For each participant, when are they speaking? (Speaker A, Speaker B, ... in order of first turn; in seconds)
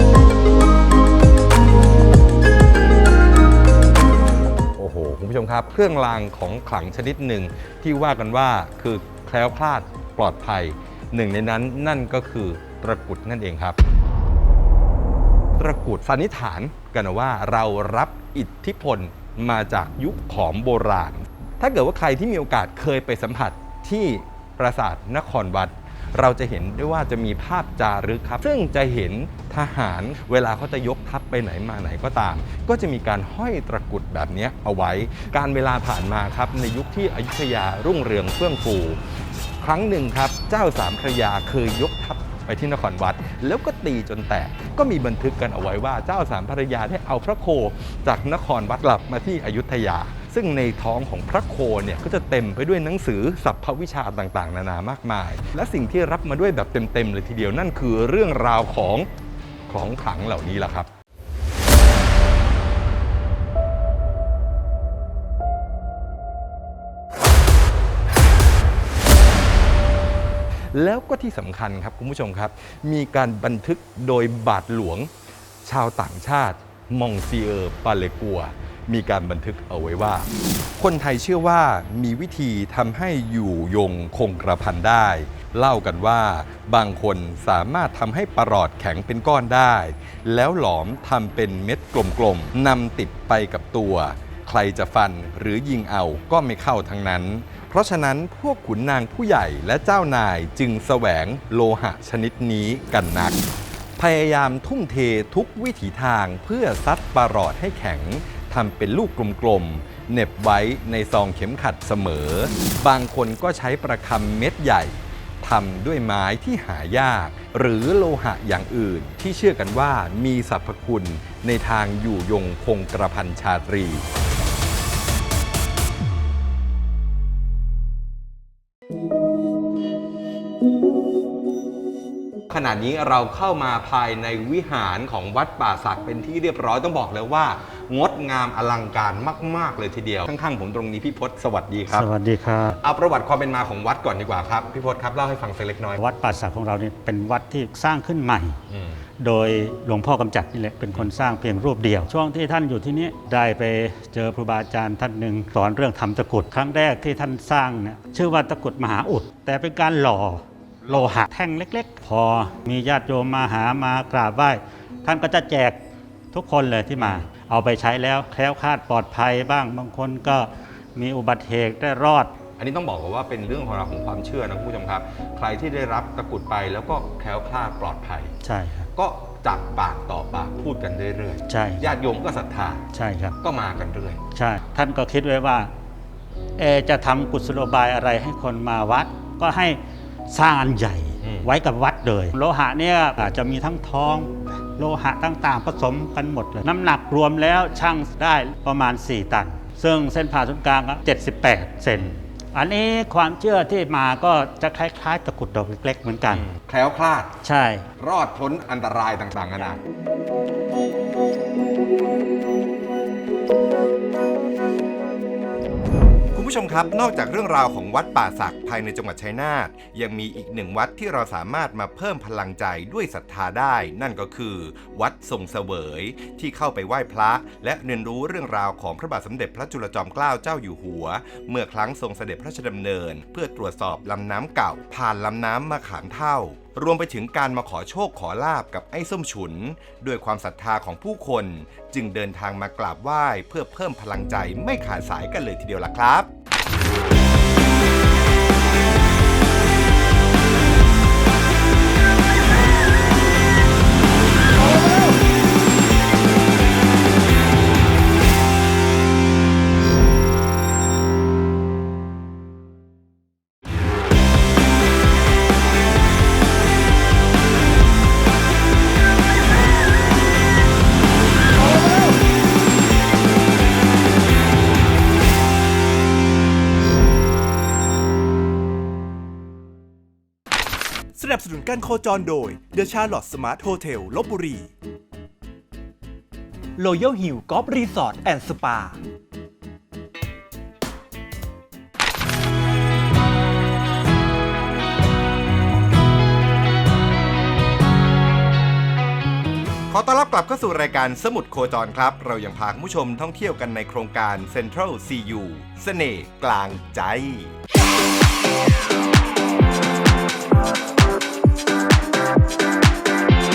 Speaker A: 4.8-13.8, 15.6-39.0, 39.6-59.1, 59.7-60.9, 70.7-75.1, 75.6-103.4, 104.0-124.1, 132.5-142.1, 142.8-146.0, 148.7-149.0, 167.0-167.2, 172.6-178.3, 178.9-182.8, 183.4-184.2, 191.2-191.5, 206.3-207.4, 208.0-209.8
Speaker B: 141.9-142.8, 146.0-148.6, 149.2-165.8, 166.3-172.3, 178.4-178.9, 181.5-181.9, 182.9-183.4, 184.3-185.7, 186.6-206.5, 207.4-207.9
Speaker C: 216.3-246.3, 299.9-307.6
Speaker D: 281.1-284.7, 286.8-289.0